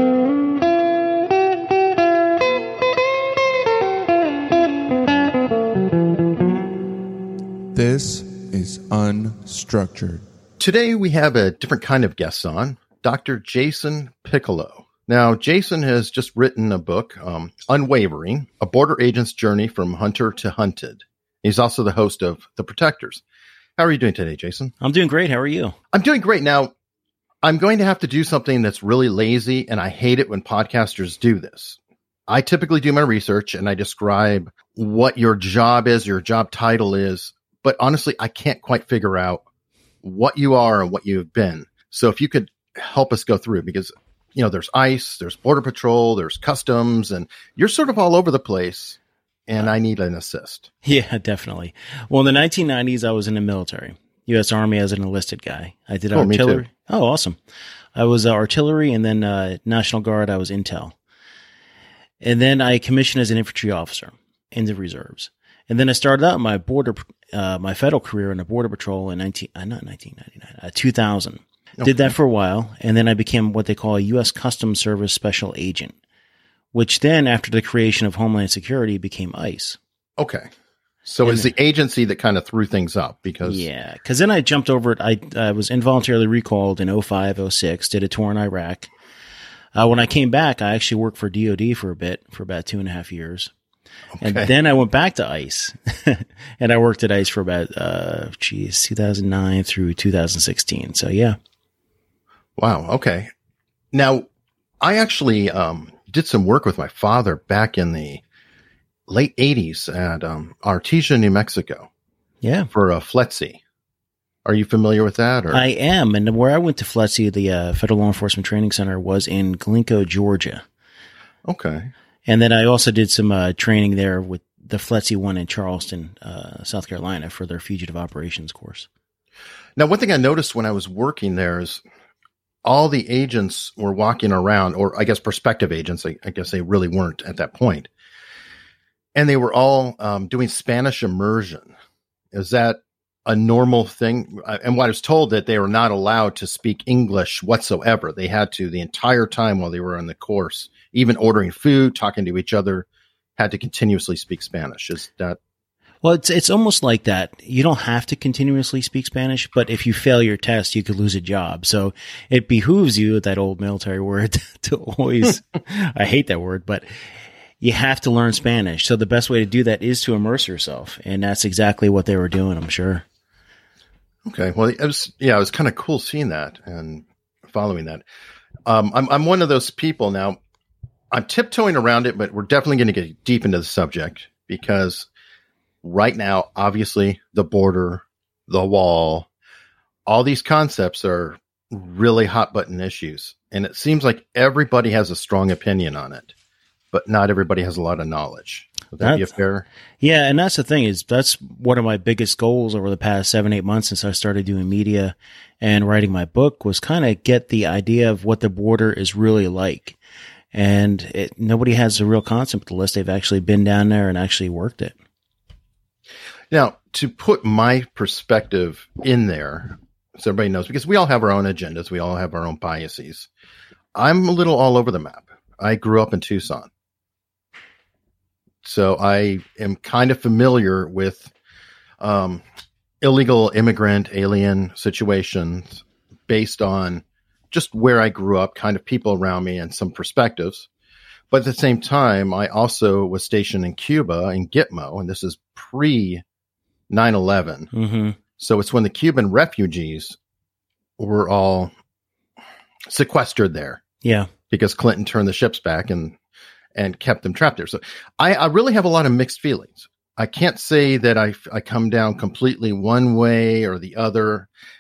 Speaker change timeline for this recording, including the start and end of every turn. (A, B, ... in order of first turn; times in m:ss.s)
0:07.7-0:10.2 A
0:10.6-0:23.2 B
0:23.8-0:24.7 B
0:24.8-0:25.7 C
0:25.9-0:26.7 B
0:27.4-0:39.4 B
0:40.0-0:50.7 B
0:50.8-0:57.4 C
0:56.1-0:56.6 B
0:57.9-1:00.9 C
1:02.2-1:15.9 C
1:11.8-1:12.1 B
1:16.7-1:19.8 C
1:20.2-1:20.5 B
1:21.0-1:23.6 B
1:21.2-1:21.5 C
1:23.4-1:28.9 C
1:29.7-1:33.5 C
1:34.1-1:34.5 B
1:34.2-1:41.4 C
1:42.6-1:43.3 B
1:43.9-1:44.3 B
1:44.8-1:48.2 B
1:49.1-1:51.9 B
1:52.4-1:52.7 C
1:52.7-1:53.6 B
1:54.4-1:55.6 B
1:55.5-2:00.6 C
2:01.4-2:01.9 B
2:02.2-2:08.9 C
2:09.8-2:11.8 B
2:12.6-2:17.9 B
2:19.1-2:21.7 B
2:22.3-2:32.8 B
2:33.4-2:35.4 B
2:36.0-2:46.9 C
2:47.6-2:53.0 C
2:54.2-2:58.0 B
2:58.6-3:00.4 B
3:01.1-3:05.1 B
3:05.8-3:09.3 B
3:10.0-3:16.3 B
3:16.9-3:19.6 B
3:19.0-3:19.3 C
3:20.0-3:30.0 C
3:30.5-3:34.9 C
3:36.5-3:43.3 B
3:43.9-3:46.7 B
3:48.6-3:51.3 B
3:52.0-3:52.4 B
3:53.0-4:00.7 B
4:01.3-4:06.2 B
4:06.9-4:07.7 B
4:07.7-4:08.2 C
4:08.4-4:10.2 B
4:11.0-4:11.7 B
4:12.9-4:13.8 B
4:14.0-4:14.3 C
4:14.5-4:16.2 B
4:16.7-4:24.5 B